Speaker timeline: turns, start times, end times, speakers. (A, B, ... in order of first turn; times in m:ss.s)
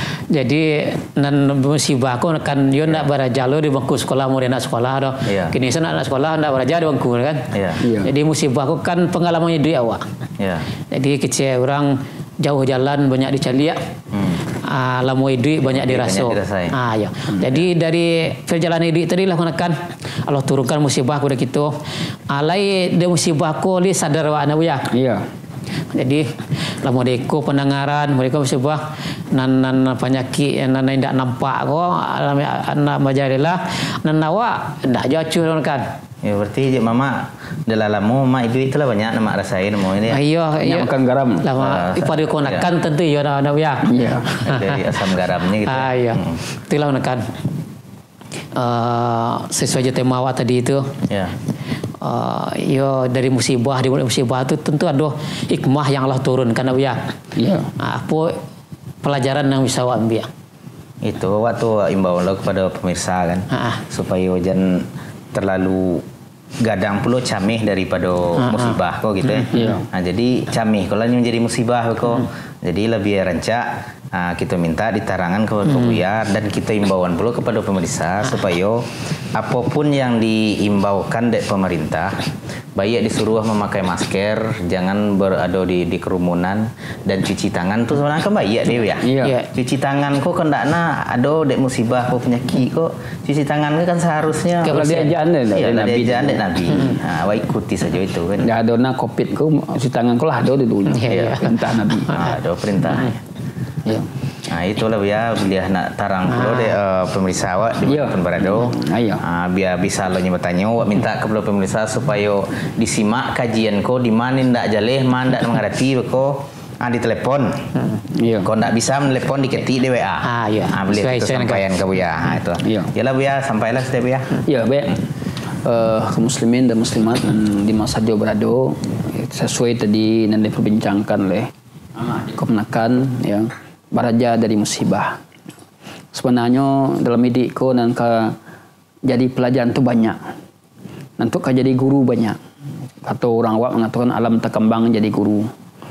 0:00.3-0:07.5 A
0:05.3-0:05.5 B
0:07.5-0:07.8 B
0:07.8-0:08.1 C
0:08.0-0:10.0 A
0:10.4-0:10.7 B
0:10.9-0:13.8 A
0:14.1-0:14.4 B
0:14.6-0:21.8 A
0:15.7-0:16.8 B
0:22.3-0:24.9 A
0:24.9-0:25.3 C
0:25.9-0:35.9 A
0:36.2-0:40.2 B
0:40.1-0:44.8 A
0:40.6-0:41.5 C
0:41.6-0:42.7 B
0:43.8-0:44.3 C
0:44.5-0:46.4 B
0:45.6-0:47.3 A
0:48.5-0:50.9 A
0:51.1-0:51.4 B
0:52.0-0:57.0 A
0:57.4-0:57.7 C
0:57.8-0:58.4 A
0:59.0-1:00.3 A
1:01.0-1:06.0 B
1:03.5-1:03.8 A
1:06.6-1:22.2 B
1:08.4-1:09.7 A
1:09.5-1:09.9 C
1:15.7-1:16.0 A
1:22.8-1:34.8 B
1:29.0-1:29.3 C
1:29.2-1:29.5 A
1:34.6-1:35.1 A
1:34.7-1:36.5 C
1:35.5-1:38.5 B
1:38.4-1:42.1 C
1:40.9-1:42.3 A
1:41.1-1:41.4 B
1:42.1-1:43.2 B
1:43.8-1:44.1 C
1:44.5-1:57.7 B
1:46.3-1:46.7 A
1:47.8-1:49.2 C
1:58.1-1:58.5 C
1:58.4-2:04.4 B
2:00.2-2:01.6 A
2:02.6-2:02.9 C
2:04.4-2:15.2 C
2:16.1-2:18.4 C
2:19.1-2:20.2 C
2:21.2-2:22.4 C
2:23.0-2:25.5 C